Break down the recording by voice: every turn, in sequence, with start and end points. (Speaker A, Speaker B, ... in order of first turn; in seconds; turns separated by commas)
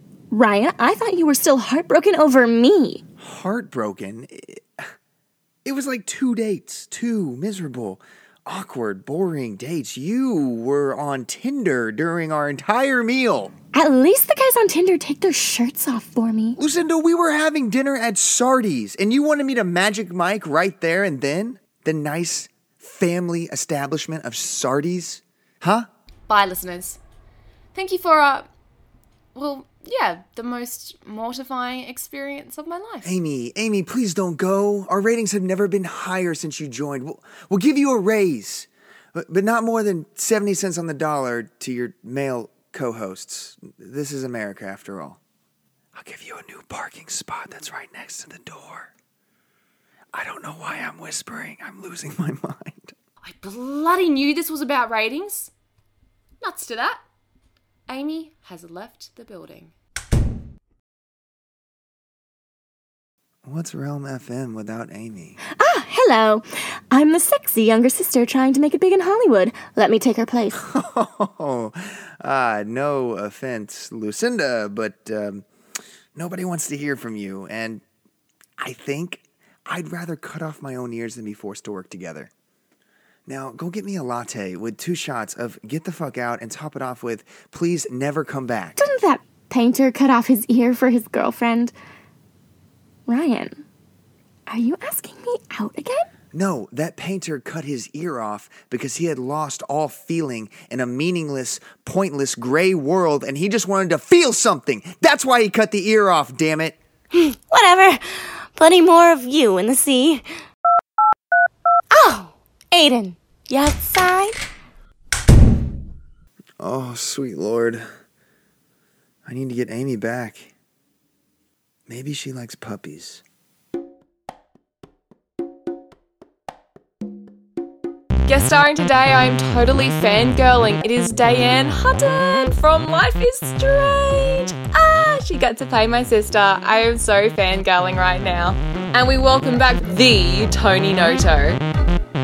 Speaker A: 0.3-3.0, Speaker B: 3.2-4.8, Speaker B: 5.6-13.5, Speaker A: 13.7-16.6, Speaker B: 16.6-25.9, Speaker C: 26.3-27.0, Speaker C: 27.7-28.5, Speaker C: 29.3-33.1, Speaker B: 33.0-45.2, Speaker B: 45.9-48.9, Speaker B: 50.1-52.9, Speaker C: 53.2-55.5, Speaker C: 56.4-57.0, Speaker C: 57.9-59.7, Speaker B: 63.4-65.4, Speaker A: 65.6-70.6, Speaker B: 70.5-75.5, Speaker B: 76.2-77.8, Speaker B: 78.6-82.3, Speaker B: 83.3-88.8, Speaker A: 88.8-91.7, Speaker A: 93.1-93.6, Speaker A: 94.5-96.0, Speaker B: 96.3-106.8, Speaker A: 107.1-110.2, Speaker A: 111.9-114.4, Speaker B: 116.6-117.8, Speaker B: 119.2-120.5, Speaker B: 121.9-123.2, Speaker C: 128.2-141.6